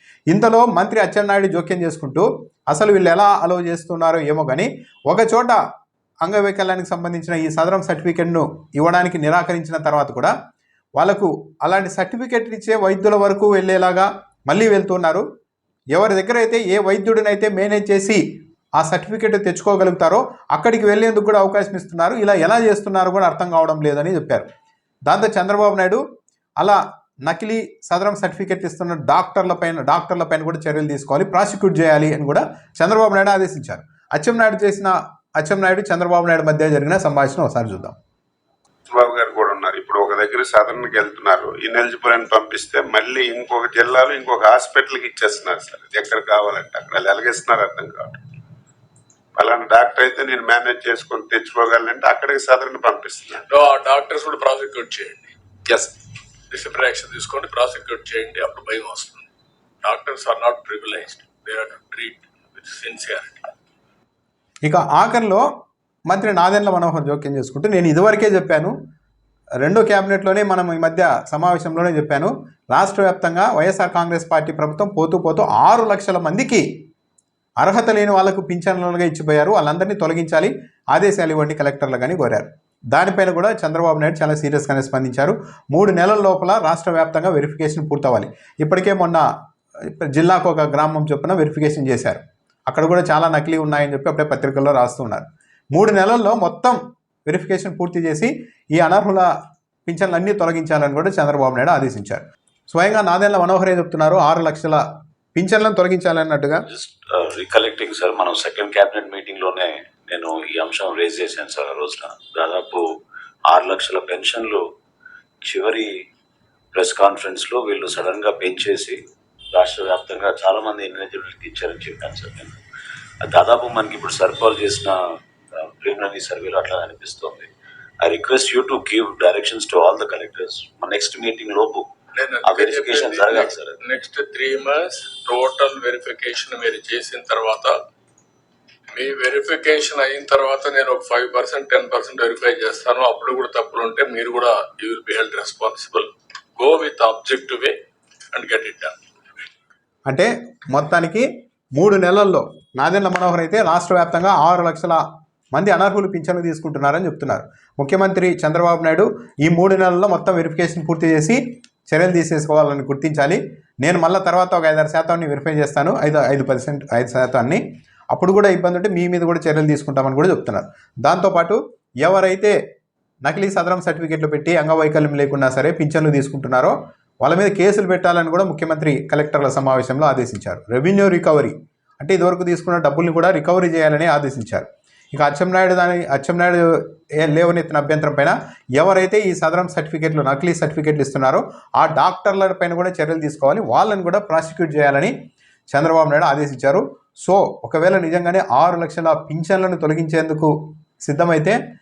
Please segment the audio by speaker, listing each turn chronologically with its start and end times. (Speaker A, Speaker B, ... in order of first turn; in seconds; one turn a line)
Speaker A: 0.3-5.6
Speaker A: 6.2-10.3
Speaker A: 11.0-15.2
Speaker A: 15.9-18.2
Speaker A: 18.8-24.5
Speaker A: 25.1-26.0
Speaker A: 26.6-38.0
Speaker B: 38.9-48.2
Speaker B: 49.4-53.4
Speaker C: 53.5-55.4
Speaker C: 56.5-59.3
Speaker C: 59.8-63.5
Speaker A: 64.6-65.5
Speaker A: 66.1-68.8
Speaker A: 69.6-76.7
Speaker A: 77.6-89.3
Speaker A: 89.9-99.3
Speaker A: 99.9-104.8
Speaker A: 105.3-106.7
Speaker D: 106.7-112.8
Speaker D: 113.5-114.6
Speaker D: 115.4-115.9
Speaker D: 116.7-119.0
Speaker D: 119.5-122.6
Speaker D: 123.2-125.0
Speaker D: 125.5-127.5
Speaker D: 128.0-131.9
Speaker C: 132.2-137.7
Speaker D: 132.4-133.8
Speaker C: 138.9-147.8
Speaker C: 148.3-149.0
Speaker A: 150.1-155.0
Speaker A: 155.5-172.6
Speaker A: 173.2-195.1
Speaker A: 195.7-201.6